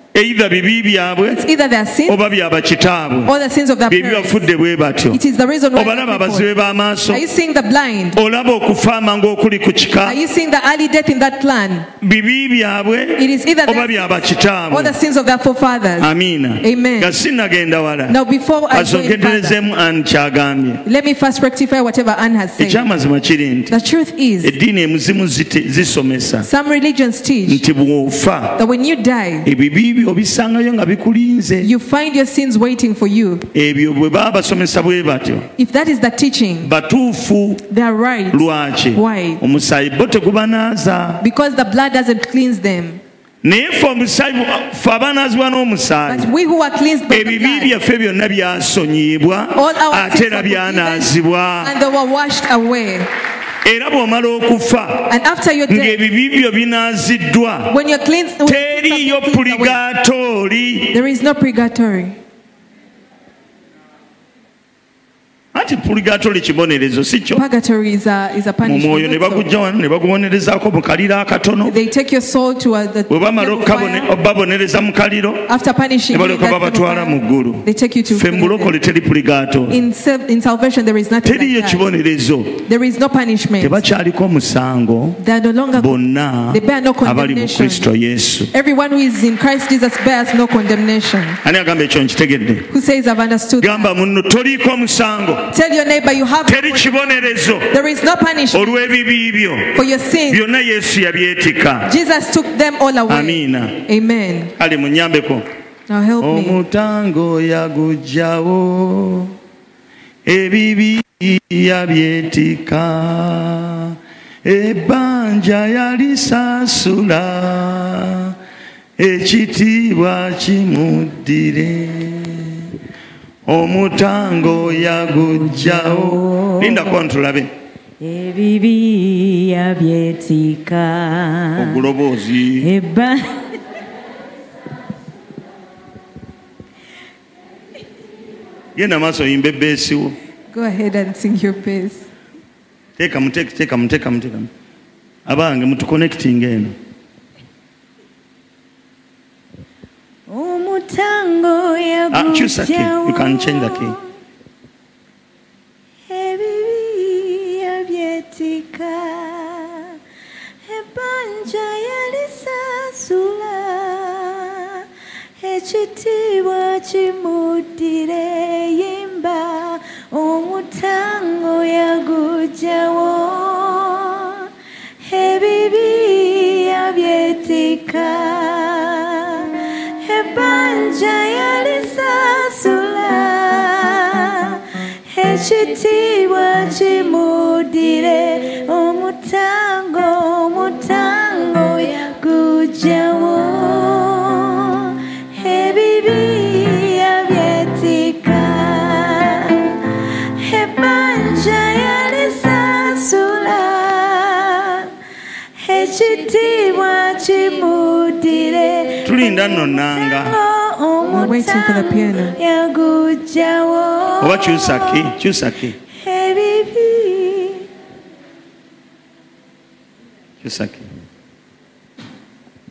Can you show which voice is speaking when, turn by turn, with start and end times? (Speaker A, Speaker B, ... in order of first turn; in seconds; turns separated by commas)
Speaker A: 0.1-1.4, Speaker B: 1.3-2.2, Speaker A: 2.1-3.3, Speaker B: 3.3-4.4, Speaker A: 3.9-5.2, Speaker B: 5.1-6.5, Speaker A: 5.8-7.2, Speaker B: 7.1-8.2, Speaker A: 8.2-10.2, Speaker B: 10.1-11.9, Speaker A: 12.0-14.9, Speaker B: 13.2-16.1, Speaker A: 16.0-18.2, Speaker B: 16.6-17.2, Speaker B: 18.1-19.6, Speaker A: 18.7-20.8, Speaker B: 20.9-22.9, Speaker A: 22.6-23.7, Speaker B: 23.7-24.5, Speaker A: 24.4-26.5, Speaker B: 26.4-27.6, Speaker A: 27.5-28.6, Speaker B: 28.6-29.5, Speaker A: 29.4-31.7, Speaker B: 31.6-33.5, Speaker A: 33.5-35.5, Speaker B: 35.6-36.7, Speaker A: 36.6-37.6, Speaker B: 37.7-39.4, Speaker A: 38.3-41.2, Speaker B: 41.2-43.0, Speaker A: 43.4-46.3, Speaker B: 46.1-47.7, Speaker A: 47.1-51.7, Speaker B: 49.5-53.1, Speaker A: 53.6-55.1, Speaker B: 55.1-56.0, Speaker A: 55.7-57.8, Speaker B: 57.7-59.8, Speaker A: 58.5-61.0, Speaker B: 60.9-62.2, Speaker A: 65.5-67.4, Speaker B: 67.3-69.5, Speaker A: 68.6-71.8, Speaker B: 71.7-74.1, Speaker A: 73.1-75.5, Speaker B: 75.5-78.7, Speaker A: 76.1-79.8, Speaker B: 79.7-81.8, Speaker A: 81.2-82.6, Speaker B: 82.7-83.8, Speaker A: 83.6-85.2, Speaker B: 85.2-86.0, Speaker A: 85.8-88.5, Speaker B: 86.5-87.9, Speaker B: 88.5-91.4, Speaker A: 91.4-92.7, Speaker B: 92.7-93.9, Speaker A: 93.6-95.5, Speaker B: 95.5-99.0, Speaker A: 96.5-97.7, Speaker A: 98.5-101.9, Speaker B: 99.7-100.4, Speaker B: 101.9-104.5, Speaker A: 103.1-103.8, Speaker A: 104.6-105.5, Speaker B: 105.9-106.6, Speaker A: 106.2-109.3, Speaker A: 110.3-118.3, Speaker A: 119.0-122.7, Speaker A: 123.5-127.5, Speaker C: 125.3-127.0, Speaker C: 128.0-131.8, Speaker A: 131.6-132.7, Speaker C: 132.6-133.4, Speaker A: 138.8-140.2, Speaker B: 140.5-142.1, Speaker A: 143.0-144.5, Speaker A: 145.3-146.8, Speaker C: 150.3-154.0, Speaker A: 152.1-154.0, Speaker C: 156.1-160.0, Speaker C: 160.7-164.8, Speaker C: 165.4-174.5, Speaker C: 175.0-204.9, Speaker C: 205.6-215.1, Speaker A: 209.0-210.4, Speaker B: 211.1-212.4, Speaker A: 214.2-215.8, Speaker C: 215.9-217.7, Speaker A: 220.4-220.8